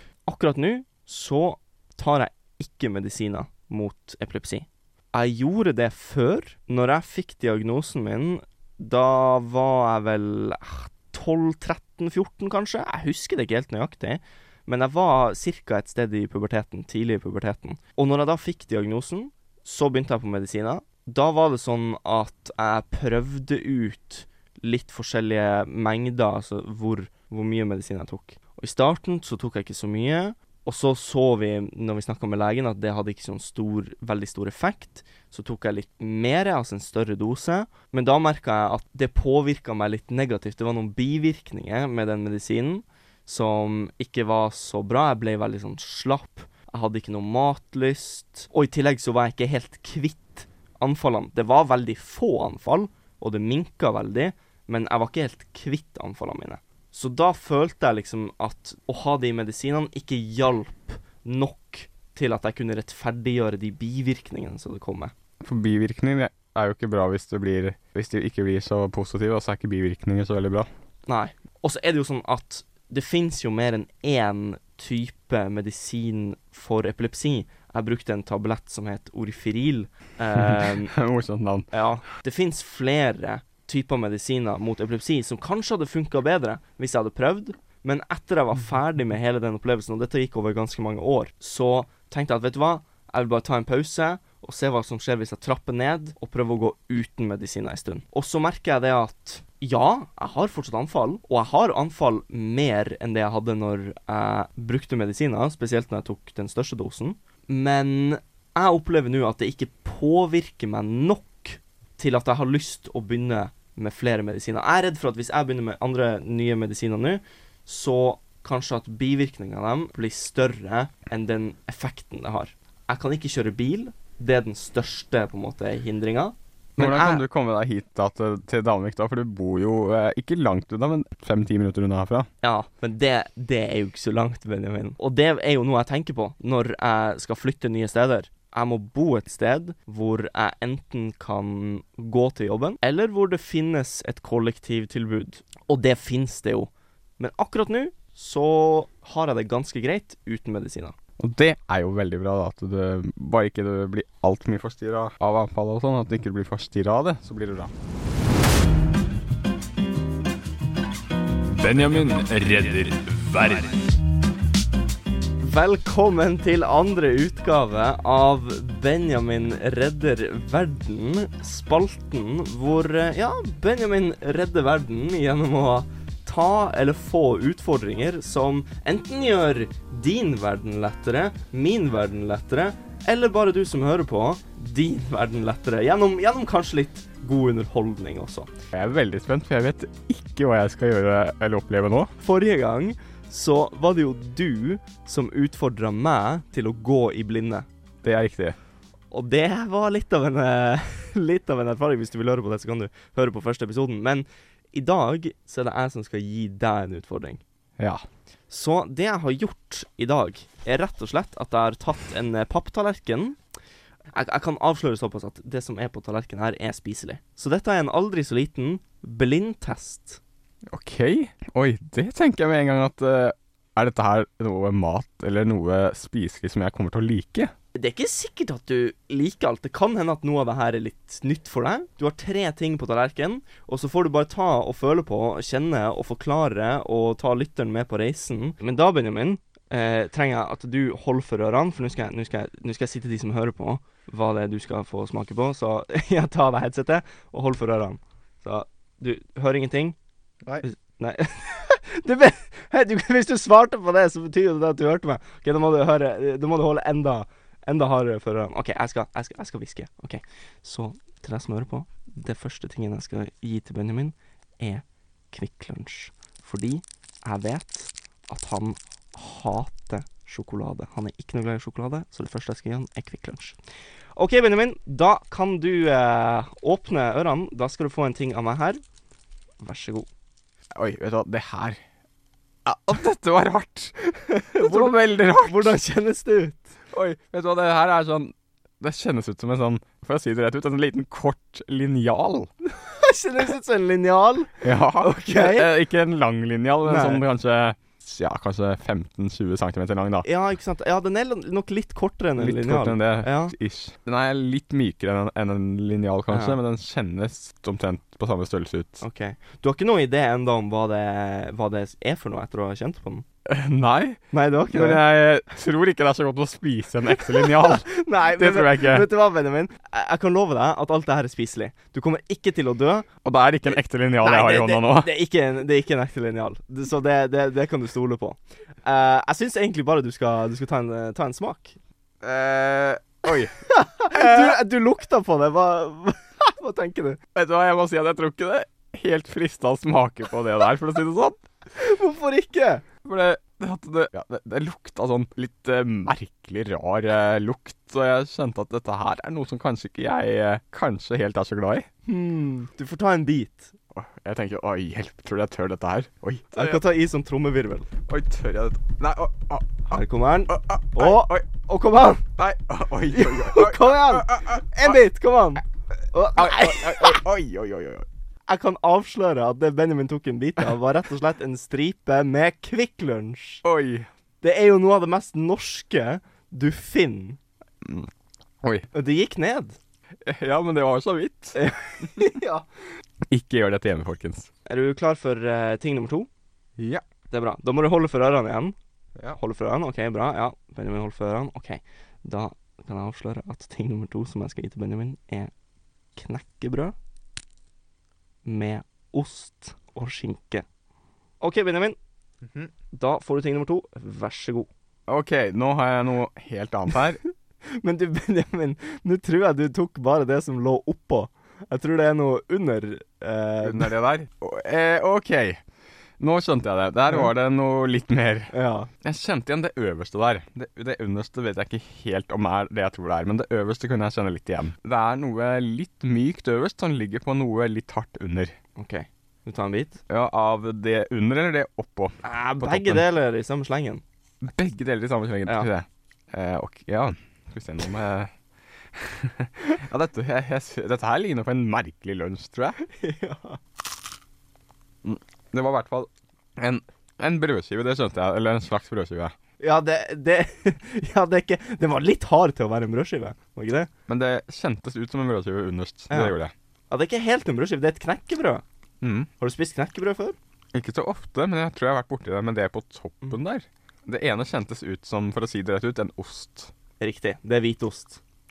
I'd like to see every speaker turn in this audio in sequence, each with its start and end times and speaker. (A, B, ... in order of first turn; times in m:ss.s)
0:00.3-1:05.1 A
1:05.4-1:10.7 B
1:11.1-1:20.9 A
1:20.4-1:21.7 B
1:21.7-2:07.2 A
2:06.8-2:12.3 B
2:12.4-2:31.0 A
2:31.2-2:37.7 B
2:41.5-2:43.8 C
2:45.4-3:08.5 A
3:08.7-3:12.1 B
3:12.2-3:17.7 A
3:18.0-3:18.6 B
3:19.1-3:27.4 A
3:27.8-3:28.0 B
3:28.5-3:33.4 A
3:34.1-3:40.2 A
3:40.7-3:47.5 B
3:47.7-4:10.0 A
4:10.6-4:33.6 A
4:34.2-4:38.8 A
4:39.6-4:40.1 A
4:40.8-4:41.8 B
4:42.6-4:44.0 B
4:44.2-4:46.7 A
4:44.5-4:45.8 B
4:46.9-4:52.5 B
4:52.7-4:55.7 A
4:54.6-5:00.3 B
4:56.9-4:57.2 A
5:00.2-5:03.6 A
5:02.4-5:09.0 B
5:06.3-5:06.6 A
5:09.0-5:13.2 A
5:13.5-5:19.1 B
5:14.3-5:15.0 A
5:17.2-5:23.1 A
5:23.2-5:25.1 B
5:24.2-5:31.8 A
5:32.2-5:33.6 B
5:33.7-5:37.2 A
5:34.1-5:34.6 B
5:37.4-5:41.4 B
5:41.8-5:42.8 A
5:43.0-5:51.9 B
5:52.1-5:53.7 A
5:53.9-5:56.8 B
5:56.5-5:57.9 A
5:58.1-6:01.4 B
5:59.9-6:02.3 A
6:02.4-6:05.0 B
6:03.1-6:07.2 A
6:06.4-6:08.1 B
6:08.5-6:13.6 A
6:13.6-6:14.1 B
6:14.4-6:17.4 A
6:17.8-6:18.1 B
6:18.6-6:18.9 B
6:18.9-6:19.8 A
6:20.2-6:22.2 B
6:21.6-6:22.7 A
6:23.3-6:24.5 B
6:24.7-6:26.3 A
6:26.8-6:27.0 B
6:27.3-6:28.8 A
6:29.3-6:35.5 A
6:36.2-6:37.0 A
6:38.4-6:40.6 A
6:41.4-6:42.0 A
6:42.9-6:44.7 A
6:45.1-6:47.2 B
6:47.7-6:53.9 A
6:53.6-6:55.6 B
6:56.2-7:08.6 B
6:58.5-6:58.9 A
7:08.8-7:10.0 A
7:10.1-7:13.0 B
7:12.2-7:14.0 A
7:14.4-7:18.3 B
7:18.9-7:22.8 B
7:22.8-7:23.6 A
7:25.0-7:29.4 B
7:29.6-7:33.9 A
7:34.1-7:36.5 B
7:36.1-7:36.4 A
7:36.9-7:38.6 A
7:39.0-7:39.3 B
7:39.4-7:40.4 A
7:40.7-7:46.7 B
7:47.0-7:48.2 A